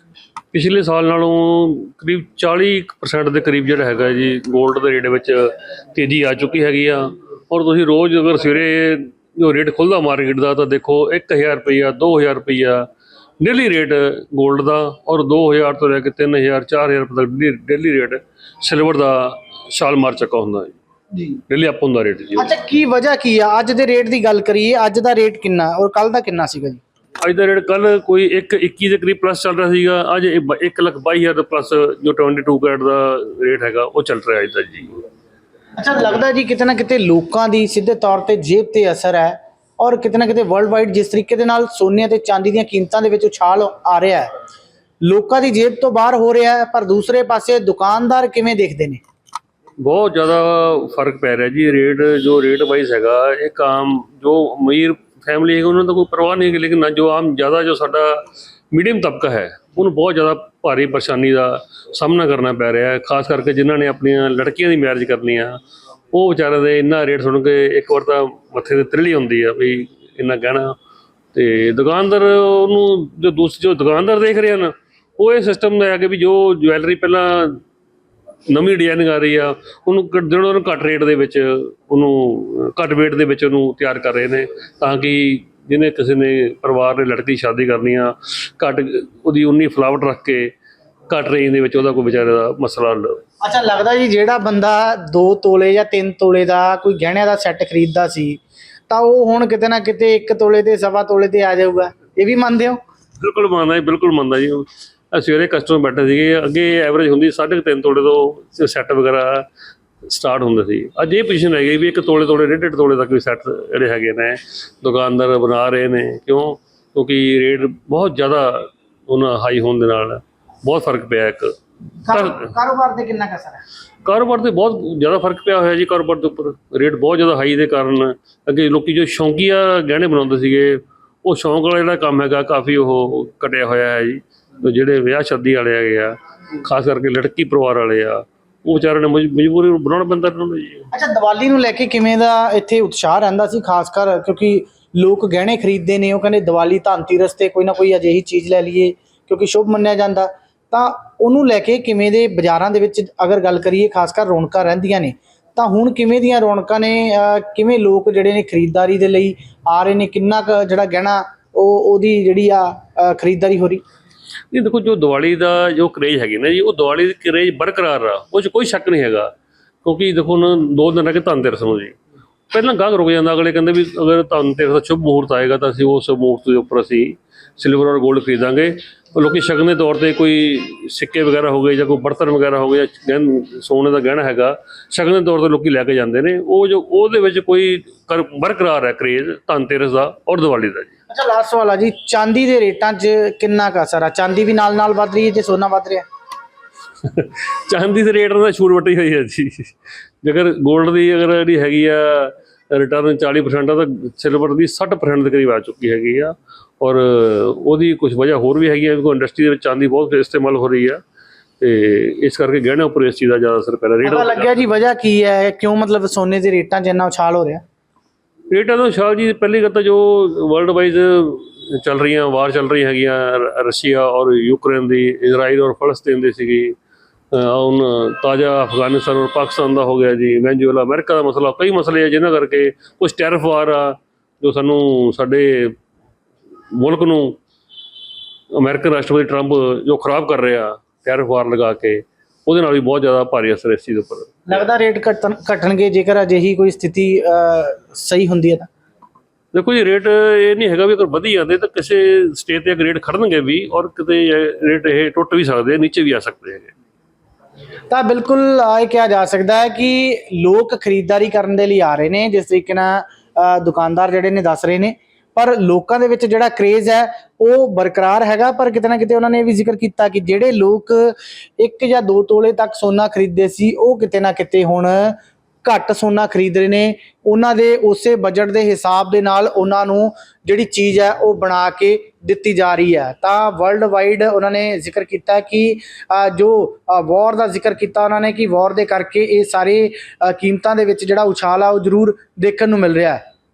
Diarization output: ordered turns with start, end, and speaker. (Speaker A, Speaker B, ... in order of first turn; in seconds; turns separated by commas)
Speaker A: 0.5-12.9, Speaker A: 13.4-20.7, Speaker B: 21.1-21.4, Speaker A: 21.5-22.5, Speaker B: 22.4-26.8, Speaker A: 27.2-35.0, Speaker B: 35.8-44.3, Speaker B: 45.0-49.0, Speaker A: 49.8-58.2, Speaker A: 58.7-65.6, Speaker A: 66.1-70.8, Speaker A: 71.3-77.6, Speaker A: 78.5-90.5, Speaker A: 91.1-93.2, Speaker B: 93.4-102.8, Speaker A: 103.2-109.5, Speaker A: 110.0-121.5, Speaker B: 122.0-123.6, Speaker A: 122.1-122.5, Speaker A: 124.0-140.9, Speaker B: 140.9-163.8, Speaker A: 164.5-169.3, Speaker A: 169.8-172.0, Speaker A: 172.5-190.9, Speaker B: 191.1-196.1, Speaker A: 197.0-211.0, Speaker A: 211.6-214.5, Speaker B: 214.0-217.6, Speaker A: 218.5-226.8, Speaker A: 227.3-235.7, Speaker A: 236.7-237.4, Speaker A: 238.5-244.4, Speaker B: 244.5-248.7, Speaker A: 249.5-256.7, Speaker B: 257.9-293.2